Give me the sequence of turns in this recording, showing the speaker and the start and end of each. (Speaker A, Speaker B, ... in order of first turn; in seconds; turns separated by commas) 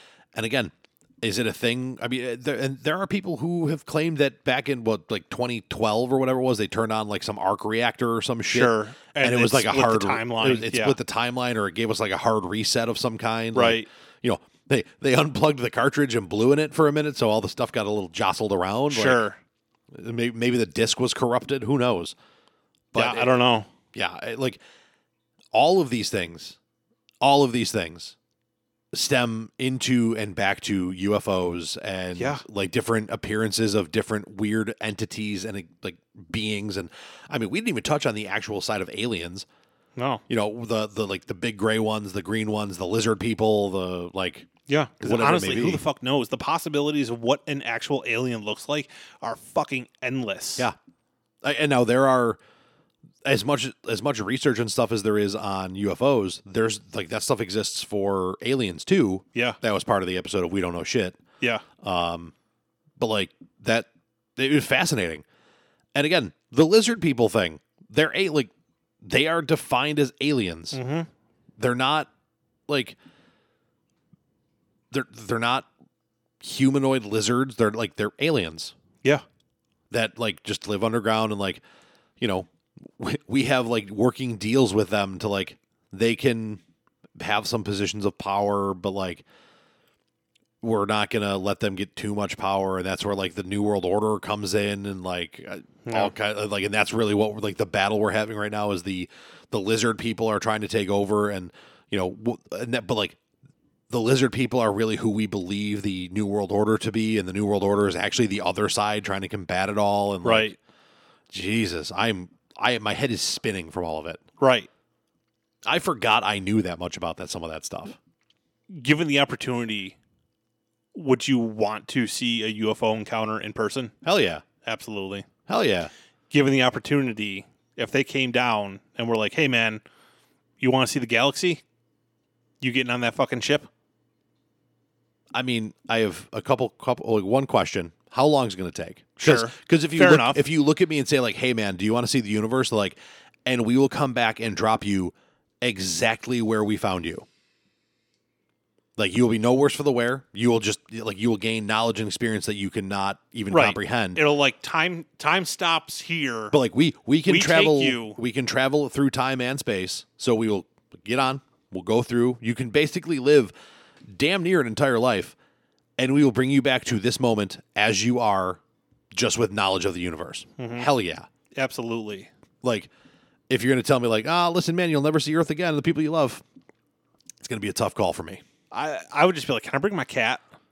Speaker A: 0.3-19.2, Speaker B: 8.5-11.0, Speaker B: 13.5-13.9, Speaker B: 18.9-19.4, Speaker A: 19.9-22.1, Speaker A: 22.9-23.3, Speaker B: 22.9-23.7, Speaker A: 23.9-24.6, Speaker A: 25.5-26.6, Speaker A: 27.2-28.2, Speaker A: 28.9-39.5, Speaker B: 32.2-32.4, Speaker B: 40.0-40.2, Speaker A: 40.3-44.5, Speaker B: 44.7-50.7, Speaker A: 45.0-45.8, Speaker A: 51.4-52.4, Speaker A: 53.2-61.2, Speaker A: 61.8-62.3, Speaker A: 63.0-65.2, Speaker A: 66.0-68.5, Speaker A: 69.0-70.8, Speaker B: 70.7-71.1, Speaker A: 71.6-72.1, Speaker A: 72.7-73.0, Speaker A: 74.9-75.7, Speaker A: 76.4-78.7, Speaker A: 79.9-81.6, Speaker A: 82.2-86.6, Speaker A: 87.2-89.2, Speaker A: 90.6-103.2, Speaker B: 95.8-96.1, Speaker A: 103.9-110.5, Speaker B: 110.2-110.6, Speaker A: 111.3-114.2, Speaker B: 114.4-114.7, Speaker A: 115.7-118.0, Speaker B: 118.7-120.0, Speaker B: 120.9-123.9, Speaker A: 124.0-124.4, Speaker B: 124.6-125.3, Speaker A: 125.5-125.9, Speaker B: 126.3-129.8, Speaker B: 130.6-131.6, Speaker B: 132.6-133.7, Speaker A: 135.3-147.3, Speaker B: 139.2-140.4, Speaker A: 149.0-154.2, Speaker B: 153.5-156.6, Speaker A: 156.5-163.5, Speaker B: 157.3-158.2, Speaker A: 164.1-165.4, Speaker A: 166.0-168.6, Speaker A: 169.1-171.3, Speaker B: 170.6-170.9, Speaker B: 171.5-172.3, Speaker A: 172.6-172.9, Speaker A: 173.5-176.4, Speaker A: 177.4-178.4, Speaker B: 178.7-180.4